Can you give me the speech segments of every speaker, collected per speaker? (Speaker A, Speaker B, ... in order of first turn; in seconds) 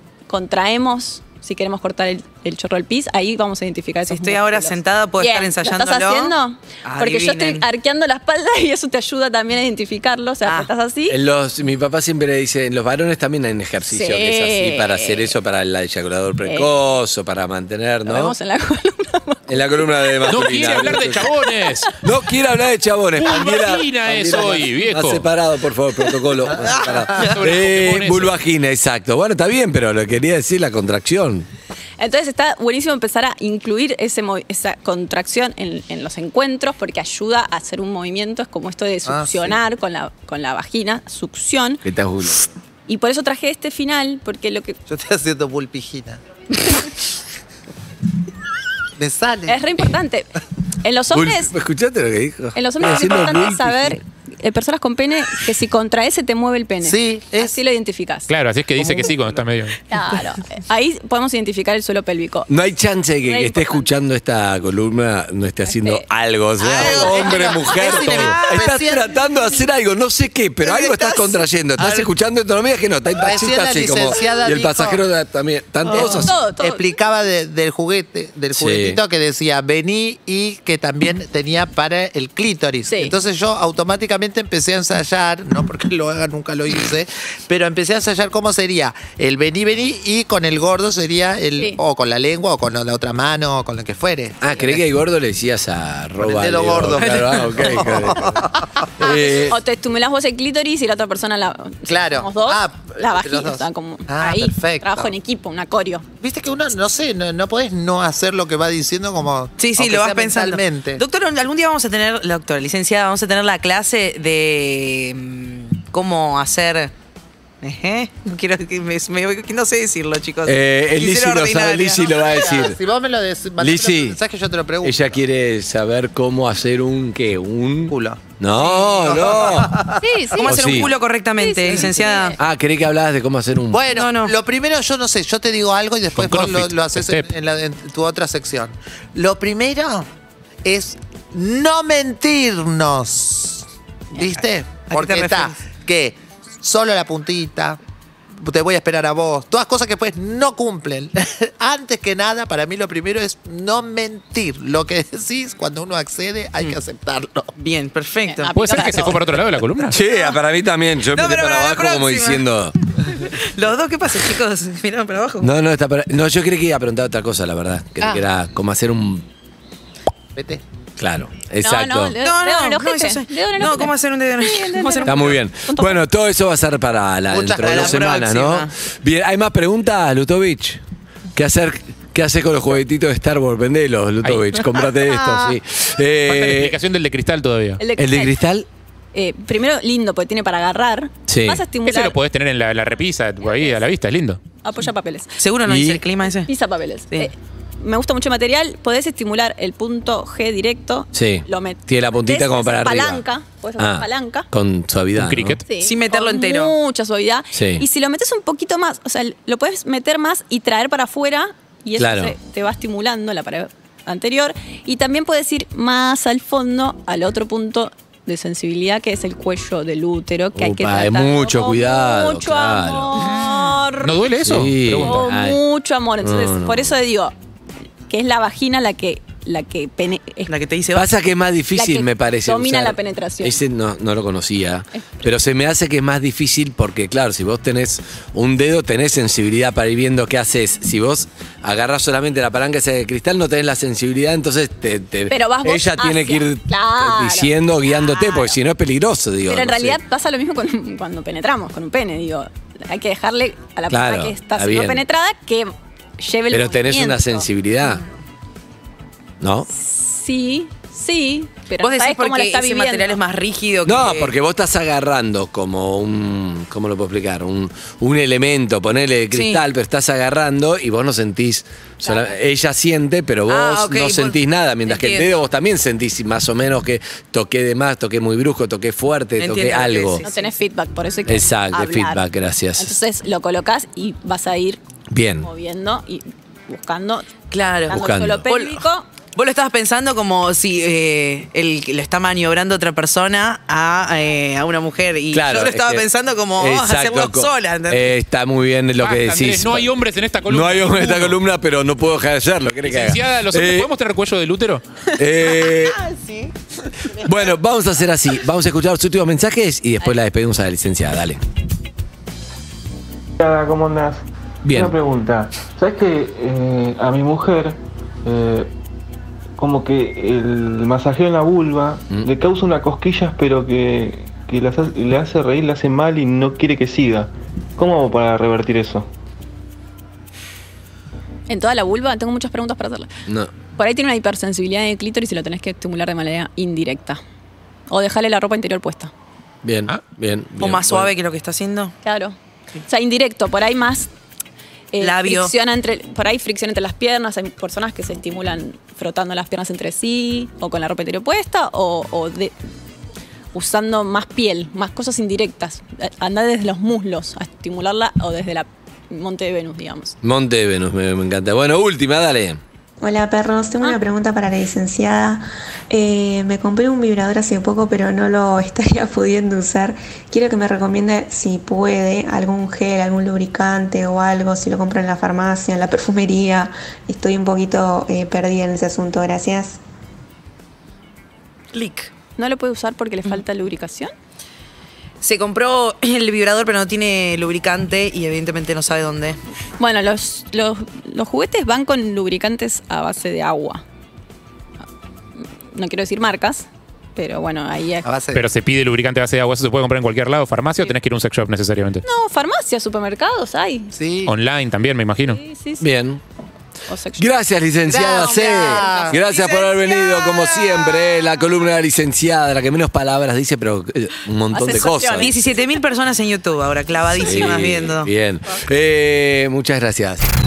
Speaker A: 0.3-11.2, 13.9-15.3, 16.4-16.7, 18.1-20.2, 32.0-41.8, 42.9-44.8, 49.5-50.3, 50.8-51.5, 52.5-58.3, 59.9-62.6, 63.2-63.9, 65.7-66.0, 75.9-76.8, 82.9-83.1, 99.0-106.0, 130.0-132.4, 158.2-159.2, 171.6-176.0, 187.8-188.3, 189.1-192.2, 193.4-193.8, 194.6-195.3, 196.5-204.5, 205.7-224.2, 225.0-227.3, 228.1-230.5, 231.7-233.6, 234.9-235.2, 245.3-248.6, 249.5-257.5, 259.7-263.2, 280.2-282.2, 282.8-284.8, 285.4-287.3, 287.9-289.1, 331.5-333.1, 333.8-337.2, 337.9-339.1, 342.0-342.4, 342.9-344.1, 344.9-352.5, 353.5-360.1, 382.4-384.1, 389.8-393.8, 395.4-398.1, 402.0-403.9, 405.2-405.8, 406.9-407.3, 407.9-409.7, 414.5-415.3
Speaker B: 4.1-7.6, 10.4-10.7, 66.7-67.8, 97.0-97.4, 109.6-116.9, 117.6-122.0, 130.3-132.3, 133.9-134.3, 144.9-145.6, 157.6-159.1, 161.1-162.4, 163.0-165.5, 172.2-175.4, 177.6-178.7, 195.4-196.5, 205.8-206.7, 223.2-223.8, 230.5-231.1, 261.8-264.3, 269.3-269.6, 273.5-275.3, 279.4-280.4, 287.5-288.8, 289.3-298.1, 305.7-306.5, 340.6-341.9, 345.0-345.5, 381.7-382.1, 385.2-389.4, 409.1-411.0, 415.2-418.1
Speaker C: 11.1-18.3, 19.5-21.3, 22.0-31.5, 41.8-42.5, 51.1-54.0, 62.5-76.4, 78.5-79.0, 94.4-98.5, 99.0-99.6, 120.4-122.8, 123.6-124.2, 124.8-129.8, 130.4-130.9, 132.4-133.8, 159.8-162.8, 165.4-169.2, 171.0-172.1, 175.0-180.8, 181.3-186.7, 188.0-188.7, 191.3-191.6, 195.6-196.0, 201.1-203.2, 203.8-205.6, 207.5-207.8, 212.0-212.3, 220.5-223.2, 224.4-225.6, 226.2-226.9, 230.9-250.0, 253.9-255.0, 256.5-258.0, 259.4-259.7, 263.8-280.2, 281.2-282.9, 285.1-285.5, 287.9-288.4, 295.3-296.1, 296.6-299.9, 300.4-303.9, 305.2-306.0, 307.1-311.4, 314.6-314.9, 333.2-333.5, 339.6-341.1, 360.2-362.6, 405.8-406.2, 407.2-415.4, 417.1-420.2
Speaker D: 20.3-21.9, 23.2-25.2, 27.1-28.4, 58.3-59.8, 68.0-68.4, 136.2-137.3, 158.5-160.0, 186.3-187.8, 191.8-194.4, 205.2-205.6, 224.0-225.2, 299.0-301.4, 302.8-304.8, 398.3-402.0, 404.2-405.4
Speaker E: 39.0-39.6, 44.9-46.2, 49.0-49.8, 56.8-57.6, 58.9-59.3, 66.6-69.1, 70.7-72.1, 73.2-75.0, 75.9-94.8, 96.2-98.9, 101.9-105.1, 106.2-111.0, 122.1-125.1, 127.9-130.0, 133.7-140.1, 140.6-147.8, 148.4-157.5, 170.3-170.6, 177.3-178.4, 398.0-398.5, 403.9-404.3, 407.9-409.2
Speaker F: 313.4-318.7, 319.6-329.1
Speaker G: 363.0-379.8